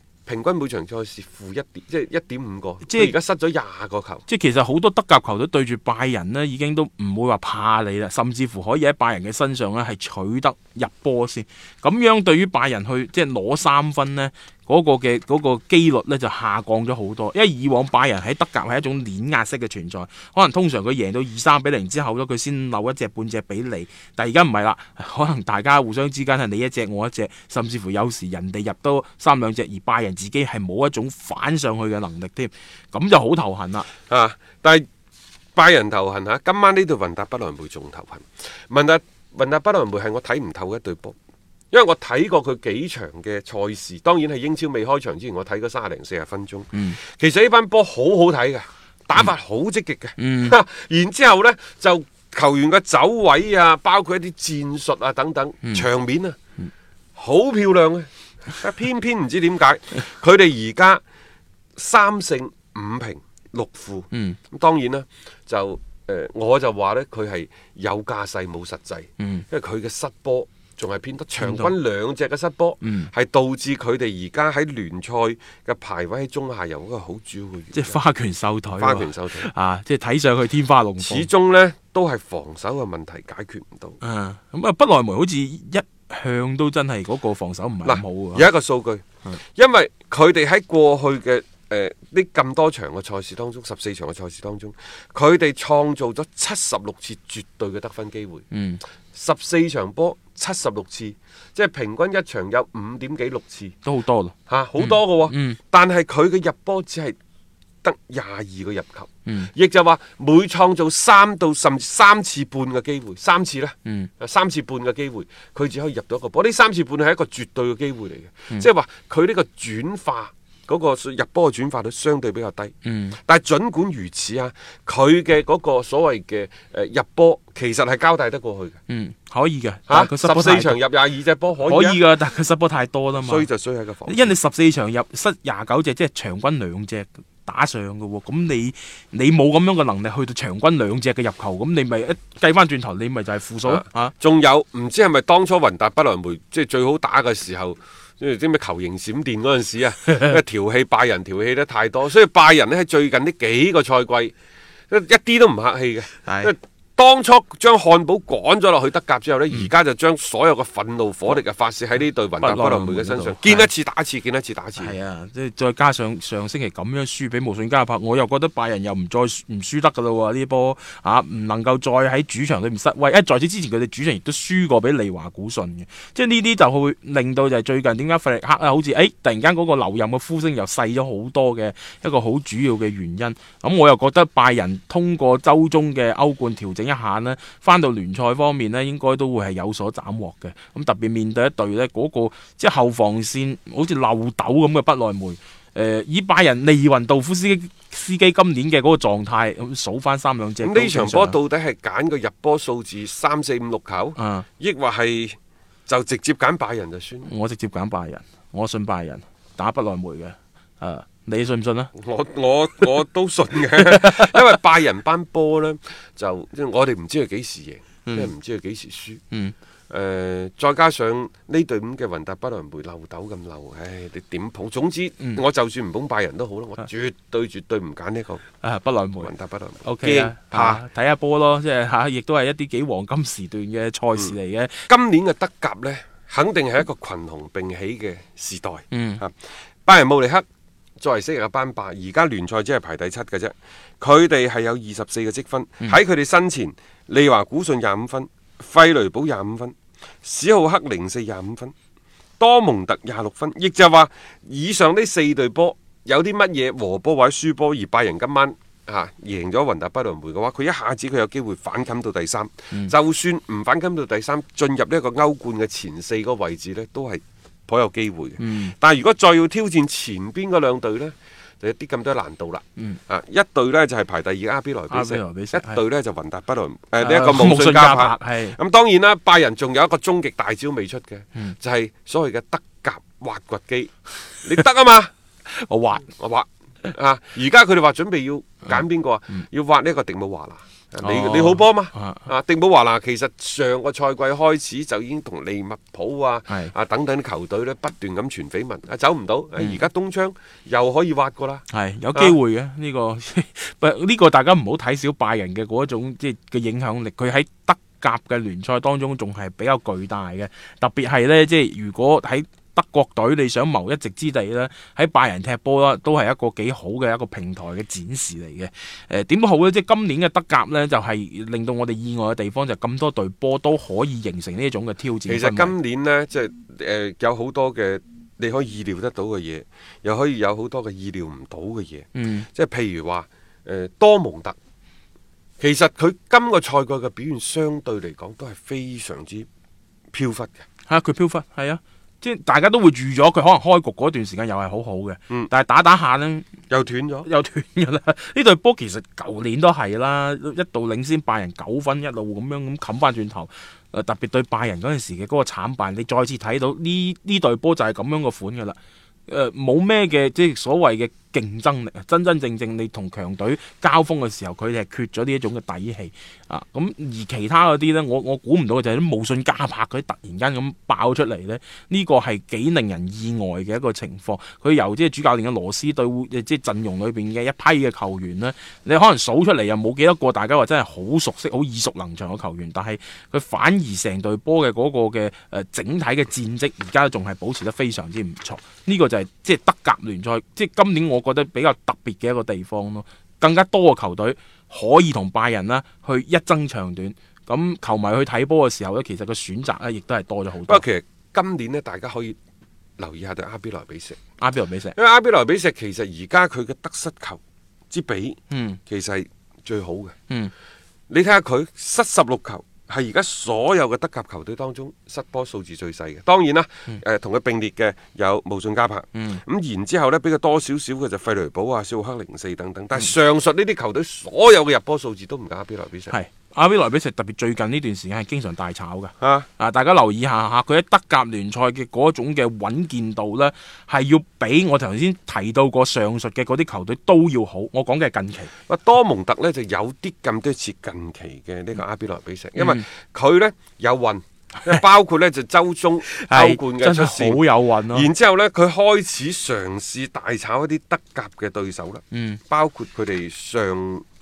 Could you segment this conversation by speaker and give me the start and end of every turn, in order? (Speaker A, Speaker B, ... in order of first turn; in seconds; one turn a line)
Speaker A: 0.2-4.2
Speaker B: 2.9-3.1
Speaker B: 4.3-33.9
Speaker A: 34.1-34.9
Speaker A: 35.5-41.1
Speaker A: 41.7-56.4
Speaker B: 50.2-50.5
Speaker A: 57.1-61.0
Speaker A: 61.8-78.0
Speaker B: 64.1-64.4
Speaker B: 69.2-69.5
Speaker B: 71.4-71.7
Speaker B: 72.8-73.1
Speaker B: 77.7-81.3
Speaker A: 78.7-79.5
Speaker A: 81.0-84.0
Speaker B: 84.0-88.5
Speaker A: 87.8-89.0
Speaker A: 89.5-98.4
Speaker B: 98.5-98.8
Speaker A: 99.1-103.7
Speaker B: 103.8-105.6
Speaker A: 104.5-107.2
Speaker A: 107.8-128.8
Speaker B: 113.8-114.1
Speaker B: 122.8-123.2
Speaker B: 128.9-130.8
Speaker A: 129.9-132.0
Speaker B: 131.6-133.5
Speaker A: 133.1-134.3
Speaker B: 134.1-144.1
Speaker A: 143.6-154.3
Speaker A: 154.9-164.9
Speaker B: 156.2-156.5
Speaker B: 162.4-163.7
Speaker B: 164.8-201.4
Speaker A: 200.6-207.3
Speaker B: 204.2-204.4
Speaker B: 207.2-211.9
Speaker A: 211.9-219.2
Speaker B: 213.8-214.3
Speaker B: 218.0-218.3
Speaker A: 219.9-228.4
Speaker B: 228.6-229.3
Speaker A: 229.2-230.8
Speaker B: 229.8-234.8
Speaker A: 234.9-239.3
Speaker B: 238.9-239.2
Speaker A: 239.8-240.4
Speaker A: 241.0-251.7
Speaker A: 252.4-285.1
Speaker B: 268.4-268.7
Speaker B: 274.9-275.8
Speaker B: 277.0-278.6
Speaker B: 285.5-286.1
Speaker A: 286.1-301.6
Speaker B: 291.0-292.2
Speaker B: 301.7-325.7
Speaker A: 325.2-334.6
Speaker B: 332.1-332.5
Speaker A: 335.6-339.5
Speaker A: 340.1-340.6
Speaker B: 340.9-346.5
Speaker A: 346.7-347.3
Speaker B: 347.2-400.8
Speaker A: 400.7-402.4
Speaker A: 403.0-404.2
Speaker B: 404.4-404.9
Speaker A: 404.9-407.4
Speaker A: 407.9-410.1
Speaker B: 408.5-408.8
Speaker A: 411.1-426.2
Speaker B: 419.1-419.4
Speaker B: 426.1-438.5
Speaker A: 429.2-429.5
Speaker A: 438.7-454.0
Speaker B: 442.6-442.8
Speaker B: 446.1-448.1
Speaker B: 452.1-452.4